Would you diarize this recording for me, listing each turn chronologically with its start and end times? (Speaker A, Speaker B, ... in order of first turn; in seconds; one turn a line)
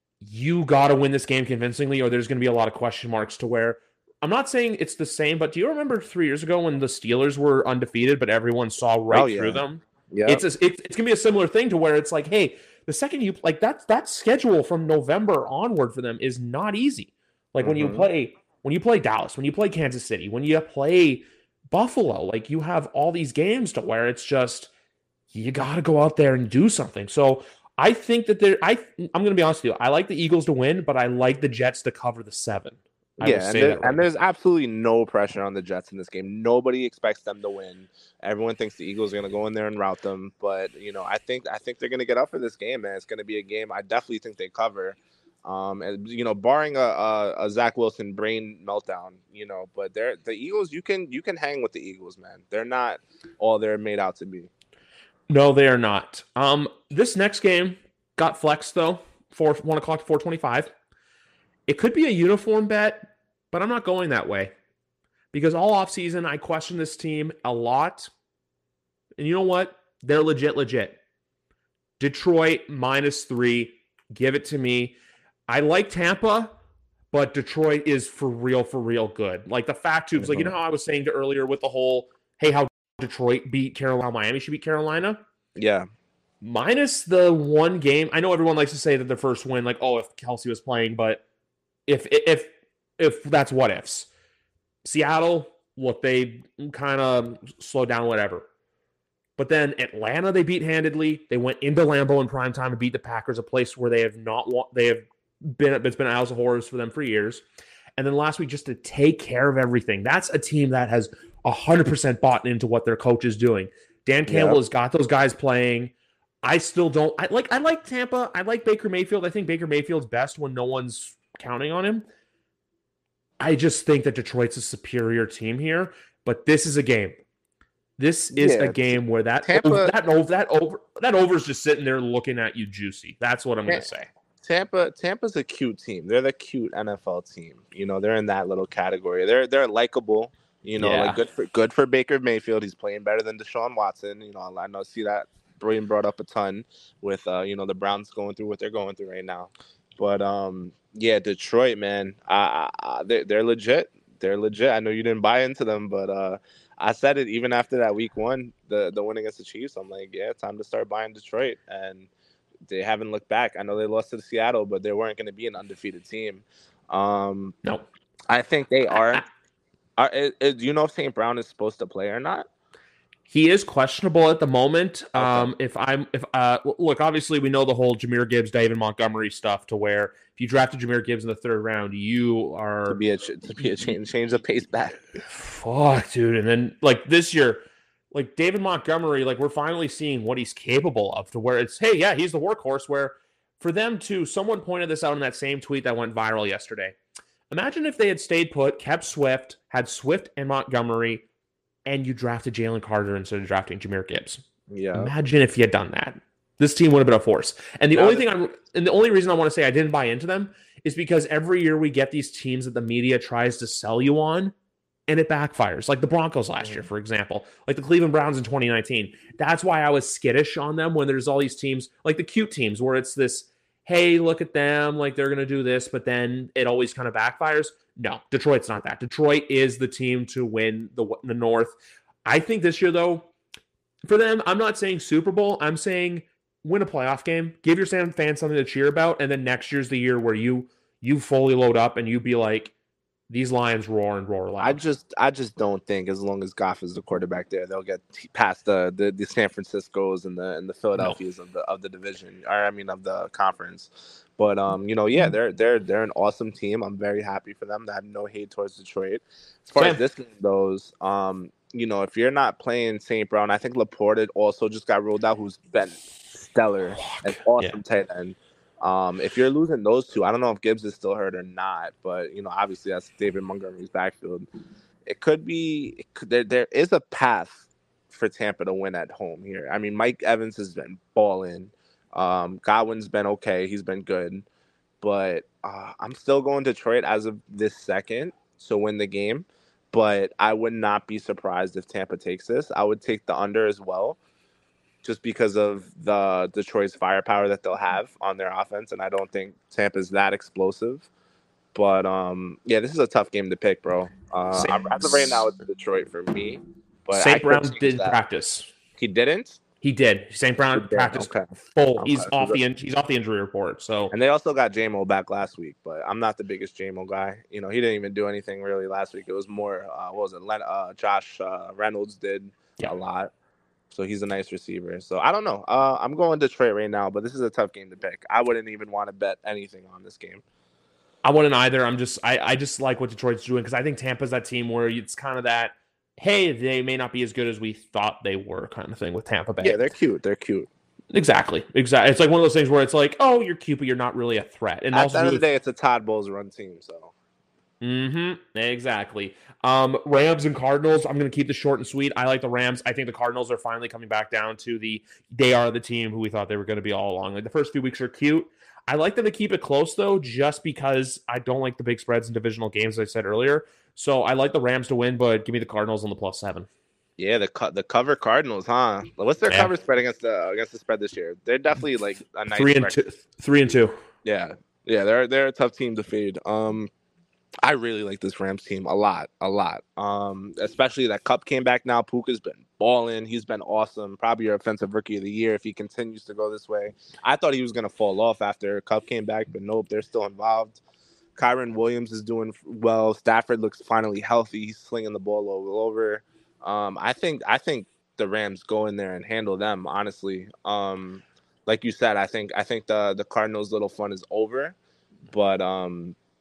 Speaker A: 0.2-24.7
Speaker B: 9.1-10.4
Speaker B: 17.6-18.1
Speaker A: 25.3-34.0
Speaker B: 33.2-54.5
Speaker A: 55.3-60.7
Speaker A: 61.7-64.5
Speaker A: 65.3-68.1
Speaker A: 69.2-71.0
Speaker A: 72.0-75.0
Speaker A: 75.5-76.6
Speaker A: 77.1-85.2
Speaker B: 80.2-80.5
Speaker B: 85.5-85.9
Speaker A: 86.4-91.2
Speaker A: 91.9-94.1
Speaker A: 94.8-98.5
Speaker A: 99.4-107.4
Speaker A: 108.0-122.0
Speaker B: 114.3-114.6
Speaker A: 123.4-127.2
Speaker A: 128.0-134.1
Speaker B: 128.3-129.9
Speaker B: 134.4-162.1
Speaker A: 140.8-141.2
Speaker B: 162.7-167.6
Speaker B: 168.3-169.2
Speaker A: 168.9-169.2
Speaker B: 170.0-172.5
Speaker A: 173.3-183.0
Speaker B: 175.2-175.5
Speaker B: 182.9-185.0
Speaker A: 185.3-196.9
Speaker A: 197.5-201.2
Speaker A: 201.9-214.5
Speaker B: 204.7-205.1
Speaker B: 207.9-208.3
Speaker A: 215.1-233.3
Speaker B: 216.6-216.9
Speaker A: 234.0-242.7
Speaker A: 243.3-244.8
Speaker B: 244.6-274.5
Speaker A: 259.8-260.0
Speaker A: 267.0-267.8
Speaker B: 275.1-284.5
Speaker B: 285.0-294.2
Speaker B: 295.0-301.1
Speaker B: 301.7-308.2
Speaker A: 304.5-305.5
Speaker A: 307.1-308.7
Speaker B: 309.0-309.6
Speaker A: 309.8-314.1
Speaker B: 310.7-311.4
Speaker B: 312.0-312.6
Speaker B: 314.1-323.3
Speaker B: 323.9-330.4
Speaker A: 331.2-339.9
Speaker B: 339.6-340.7
Speaker A: 341.1-345.4
Speaker B: 344.9-347.1
Speaker A: 347.8-366.7
Speaker B: 367.2-373.0
Speaker A: 372.5-373.9
Speaker B: 374.2-376.9
Speaker B: 377.6-390.8
Speaker B: 391.4-404.8
Speaker B: 405.3-406.2